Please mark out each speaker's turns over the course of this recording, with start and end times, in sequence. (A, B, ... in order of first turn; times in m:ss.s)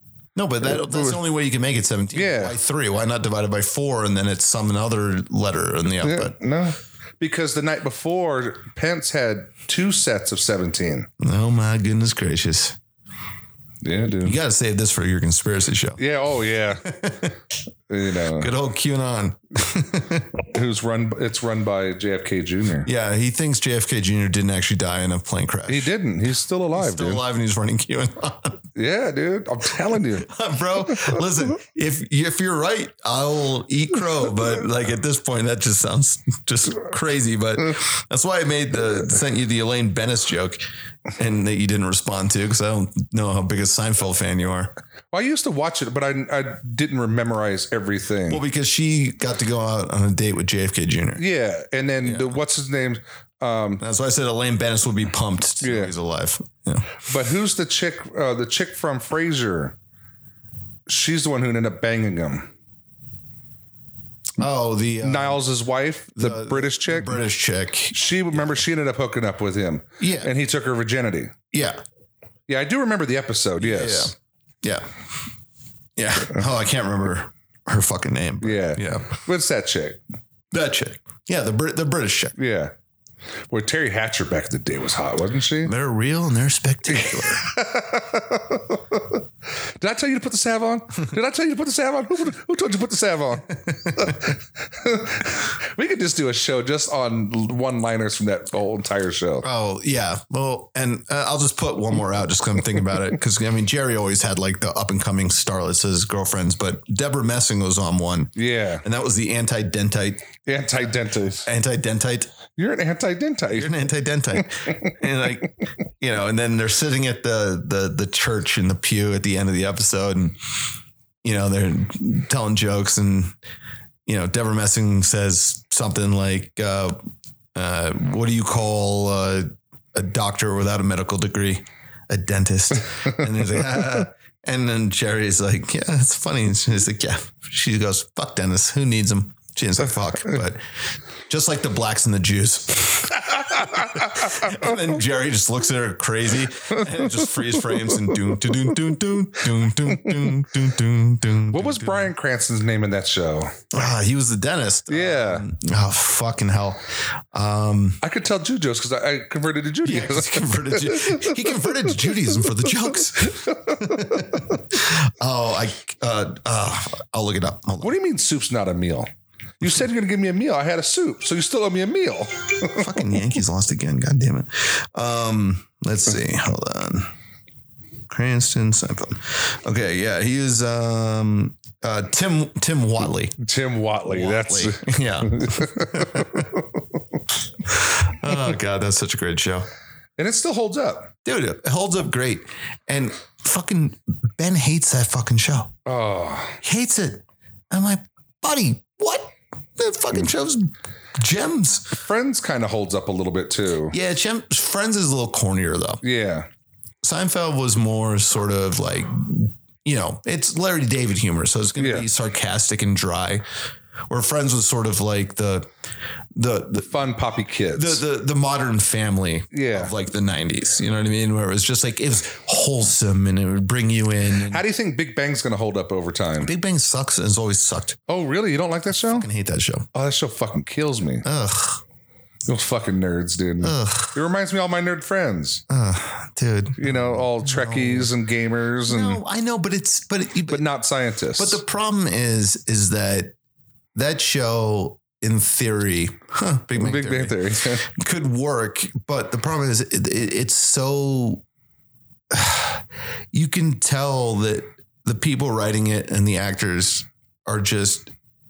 0:00.4-0:06.4 A
0:00.6-0:01.2 B
0:02.1-0:02.6 B
0:06.0-0:11.1 B
0:11.2-0:12.8 A
0:13.8-0:14.4 B
0:14.2-0:16.0 A
0:16.0-0:17.0 B
0:16.8-0:17.4 A
0:17.9-0:18.5 B
0:18.3-0:20.3 A
0:20.4-0:22.9 B
0:22.8-0:25.9 A
0:25.7-0:27.2 B
0:26.7-0:28.6 A
0:28.8-0:30.3 B
0:30.2-0:40.6 A
0:41.2-0:44.7 A
0:45.1-0:48.4 B
0:48.3-0:51.2 A
0:51.2-0:53.8 B
0:52.0-0:52.4 A
0:53.8-0:57.0 A
0:55.6-0:55.9 B
0:57.0-0:59.8 B
1:00.9-1:02.5 B
1:04.4-1:05.4 A
1:05.0-1:07.2 B
1:06.2-1:08.6 A
1:07.9-1:11.4 B
1:10.0-1:10.3 A
1:11.5-1:11.8 A
1:12.5-1:14.1 B
1:13.6-1:14.9 A
1:16.0-1:19.2 A
1:18.4-1:20.0 B
1:20.5-1:22.4 A
1:22.4-1:22.7 B
1:23.5-1:25.7 B
1:25.6-1:27.4 A
1:26.9-1:29.2 B
1:29.8-1:39.4 B
1:33.8-1:34.2 A
1:39.4-1:50.3 A
1:48.4-1:48.8 B
1:50.4-1:51.5 B
1:51.4-1:52.3 A
1:52.6-1:53.8 B
1:53.5-2:00.4 A
2:01.2-2:03.4 A
2:04.0-2:07.0 A
2:07.5-2:20.6 A
2:21.3-2:32.1 A
2:23.2-2:24.7 B
2:31.5-2:33.6 B
2:33.7-2:38.0 A
2:34.9-2:35.4 B
2:38.0-2:41.6 B
2:39.8-2:47.9 A
2:43.4-2:44.5 B
2:47.8-2:49.1 B
2:49.6-2:52.9 B
2:52.6-2:57.1 A
2:58.1-3:03.4 A
3:03.4-3:06.6 B
3:04.1-3:06.6 A
3:07.6-3:09.7 A
3:10.2-3:11.1 B
3:11.2-3:15.7 A
3:15.8-3:16.6 B
3:16.6-3:22.0 A
3:22.0-3:24.0 B
3:23.9-3:26.0 A
3:26.0-3:26.5 B
3:27.0-3:33.4 A
3:31.8-3:32.1 B
3:34.1-3:35.7 A
3:36.4-3:37.0 A
3:36.8-3:38.0 B
3:37.7-3:44.6 A
3:39.5-3:39.9 B
3:44.5-3:46.5 B
3:46.4-3:48.0 A
3:48.1-3:49.3 B
3:49.0-3:49.9 A
3:49.9-3:51.2 B
3:51.2-3:51.8 A
3:52.5-3:55.6 B
3:53.6-3:54.2 A
3:55.7-3:58.1 A
3:56.8-3:59.2 B
3:58.9-4:00.6 A
4:00.5-4:01.6 B
4:01.4-4:03.3 A
4:03.9-4:11.4 A
4:06.8-4:07.9 B
4:12.3-4:18.1 A